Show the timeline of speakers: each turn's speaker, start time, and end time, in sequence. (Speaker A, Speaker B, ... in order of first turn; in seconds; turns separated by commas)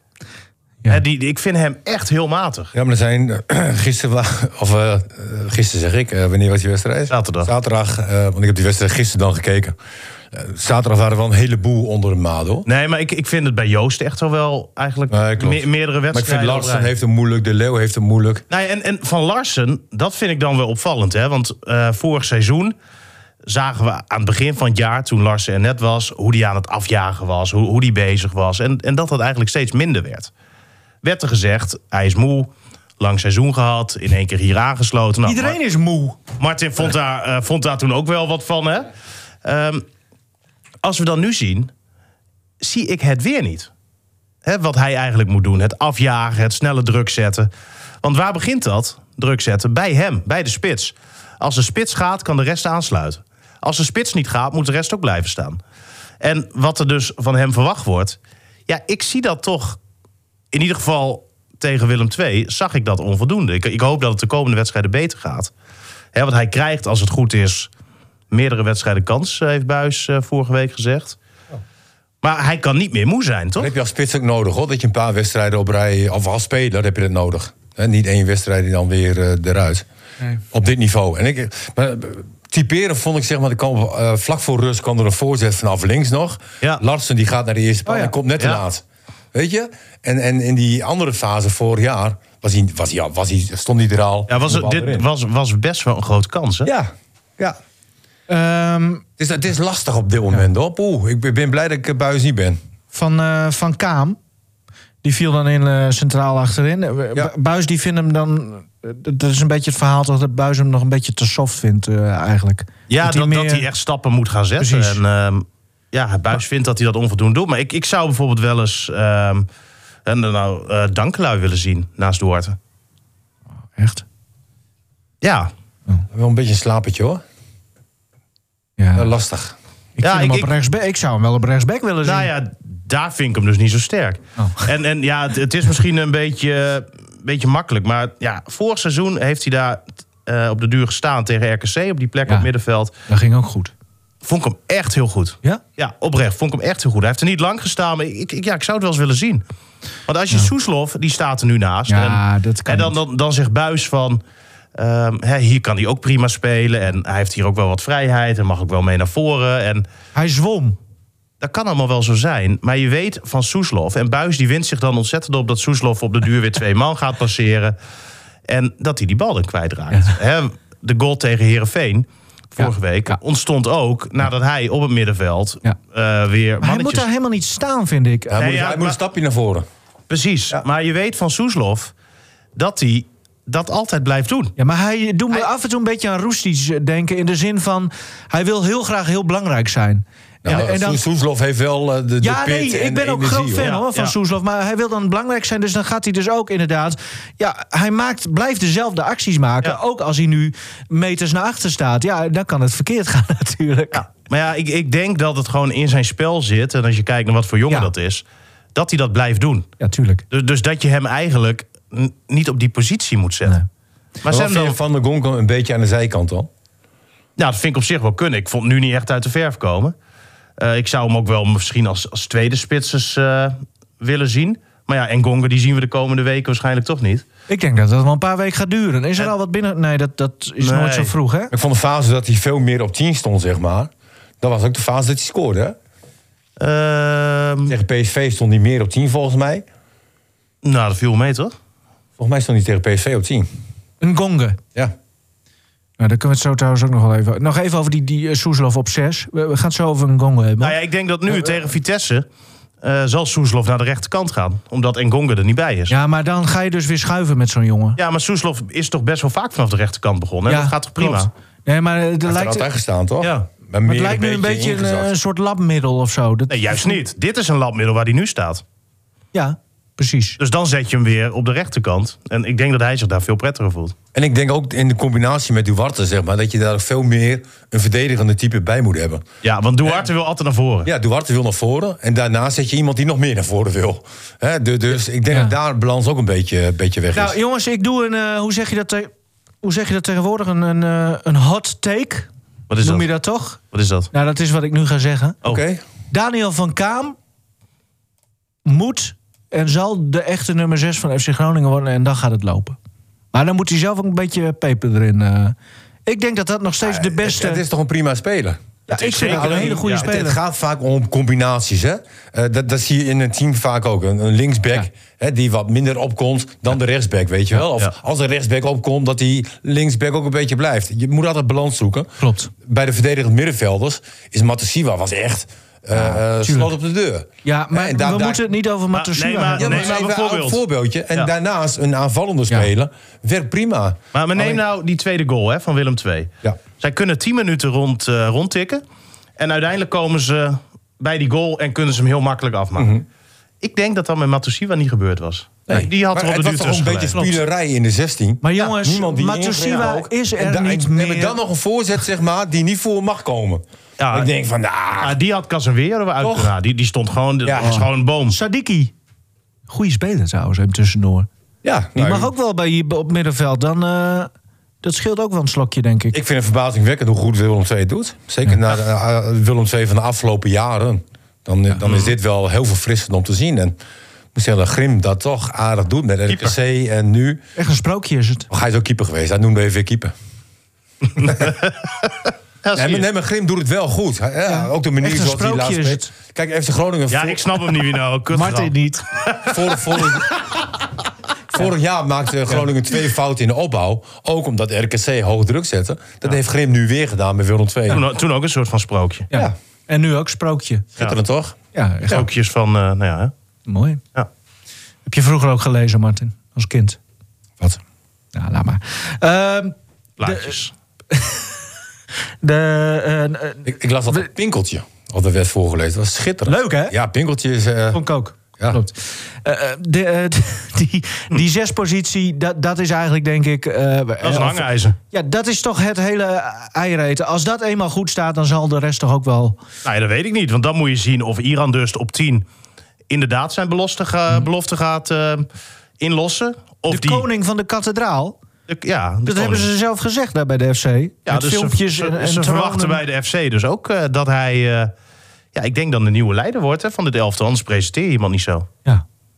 Speaker A: 0.9-2.7, Speaker B: 2.7-9.8, Speaker A: 7.1-7.5, Speaker B: 10.3-12.7, Speaker A: 12.7-16.9, Speaker B: 15.1-18.4, Speaker A: 18.5-22.8, Speaker A: 23.4-30.3, Speaker A: 31.0-35.6, Speaker C: 35.2-36.2, Speaker A: 36.4-38.9, Speaker A: 39.5-39.9, Speaker A: 40.8-41.7, Speaker A: 42.6-43.7, Speaker A: 44.4-47.5, Speaker A: 48.0-55.6, Speaker A: 56.2-59.8, Speaker A: 60.5-65.5, Speaker A: 66.1-67.7, Speaker A: 68.3-71.2, Speaker A: 72.2-73.7, Speaker B: 73.6-79.8, Speaker B: 80.5-95.1, Speaker C: 87.9-88.1, Speaker A: 94.3-96.7, Speaker B: 96.7-97.6, Speaker C: 98.3-99.0, Speaker B: 99.2-102.6, Speaker C: 102.9-104.2, Speaker C: 105.0-113.7, Speaker A: 112.9-119.5, Speaker C: 114.6-115.0, Speaker A: 120.1-122.6, Speaker C: 123.8-124.0, Speaker A: 125.2-125.5, Speaker B: 126.1-127.2, Speaker C: 128.8-129.1, Speaker B: 128.9-129.6, Speaker C: 130.0-132.3, Speaker A: 130.0-130.5, Speaker A: 132.0-142.9, Speaker C: 134.4-134.6, Speaker C: 143.1-143.7, Speaker A: 144.2-149.4, Speaker A: 150.1-154.2, Speaker C: 151.9-153.0, Speaker A: 154.8-159.9, Speaker C: 160.2-160.8, Speaker A: 161.4-167.8, Speaker A: 168.5-177.1, Speaker C: 172.6-173.2, Speaker C: 176.6-178.4, Speaker B: 178.3-179.7, Speaker A: 178.4-179.0, Speaker A: 180.1-181.9, Speaker A: 182.6-184.5, Speaker C: 184.6-191.0, Speaker B: 190.4-193.7, Speaker C: 192.2-204.0, Speaker A: 193.6-194.1, Speaker A: 203.9-208.2, Speaker A: 208.8-209.7, Speaker C: 209.8-210.2, Speaker A: 210.3-213.6, Speaker A: 214.2-214.8, Speaker B: 214.3-216.5, Speaker A: 217.4-219.9, Speaker A: 220.6-227.2, Speaker C: 227.5-231.5, Speaker A: 230.6-231.1, Speaker B: 231.5-235.8, Speaker A: 236.6-237.7, Speaker B: 237.7-239.7, Speaker A: 240.6-241.5, Speaker B: 242.2-243.5, Speaker C: 244.0-244.6, Speaker C: 246.0-250.8, Speaker A: 250.6-252.3, Speaker A: 252.8-255.9, Speaker C: 255.9-258.0, Speaker A: 258.0-261.3, Speaker C: 260.5-262.7, Speaker B: 262.2-265.1, Speaker A: 263.2-263.5, Speaker C: 263.9-267.0, Speaker A: 266.5-268.6, Speaker C: 269.3-270.4, Speaker A: 270.4-274.0, Speaker B: 274.1-279.2, Speaker A: 279.4-280.9, Speaker B: 280.9-287.4, Speaker C: 287.1-289.1, Speaker C: 289.6-292.3, Speaker A: 292.7-293.1, Speaker C: 292.8-293.6, Speaker A: 293.7-294.1, Speaker C: 294.1-295.4, Speaker B: 295.4-295.8, Speaker C: 296.1-297.2, Speaker C: 298.6-302.8, Speaker C: 303.3-307.6, Speaker B: 306.9-308.6, Speaker C: 308.9-310.4, Speaker A: 308.9-310.1, Speaker B: 309.2-328.4, Speaker C: 322.2-322.5, Speaker C: 325.9-326.7, Speaker C: 327.4-329.9, Speaker A: 328.9-330.6, Speaker B: 329.6-334.6, Speaker A: 334.1-338.8, Speaker A: 339.4-342.9, Speaker B: 342.8-343.1, Speaker A: 343.6-347.3, Speaker B: 345.7-355.2, Speaker C: 348.4-351.4, Speaker A: 354.0-354.3, Speaker A: 355.0-358.4, Speaker B: 356.2-356.5, Speaker B: 357.4-357.8, Speaker C: 357.6-358.9, Speaker C: 359.7-361.3, Speaker B: 361.6-362.3, Speaker C: 361.9-364.3, Speaker C: 364.8-366.2, Speaker B: 366.1-373.8, Speaker A: 371.8-372.1, Speaker B: 374.4-377.4, Speaker C: 377.6-378.5, Speaker B: 378.5-380.1, Speaker A: 381.1-382.1, Speaker A: 382.6-383.1, Speaker B: 382.8-387.6, Speaker C: 384.5-386.1, Speaker A: 387.1-390.1, Speaker C: 388.3-389.1, Speaker B: 389.5-390.3, Speaker B: 391.5-398.0, Speaker A: 397.9-399.3, Speaker C: 399.3-400.9, Speaker B: 401.0-401.6, Speaker C: 401.7-402.3, Speaker A: 402.1-403.3, Speaker C: 403.7-404.0, Speaker C: 405.1-407.0, Speaker C: 408.3-410.6, Speaker A: 410.2-410.7, Speaker C: 411.1-411.5, Speaker C: 412.4-414.3, Speaker B: 413.6-418.0, Speaker C: 416.5-417.0, Speaker C: 417.9-429.6, Speaker A: 424.2-425.0, Speaker A: 429.9-432.4, Speaker A: 433.1-435.5, Speaker A: 436.0-437.3, Speaker C: 436.9-438.4, Speaker A: 438.7-439.7, Speaker C: 439.3-443.0, Speaker A: 441.3-444.9, Speaker A: 445.5-448.7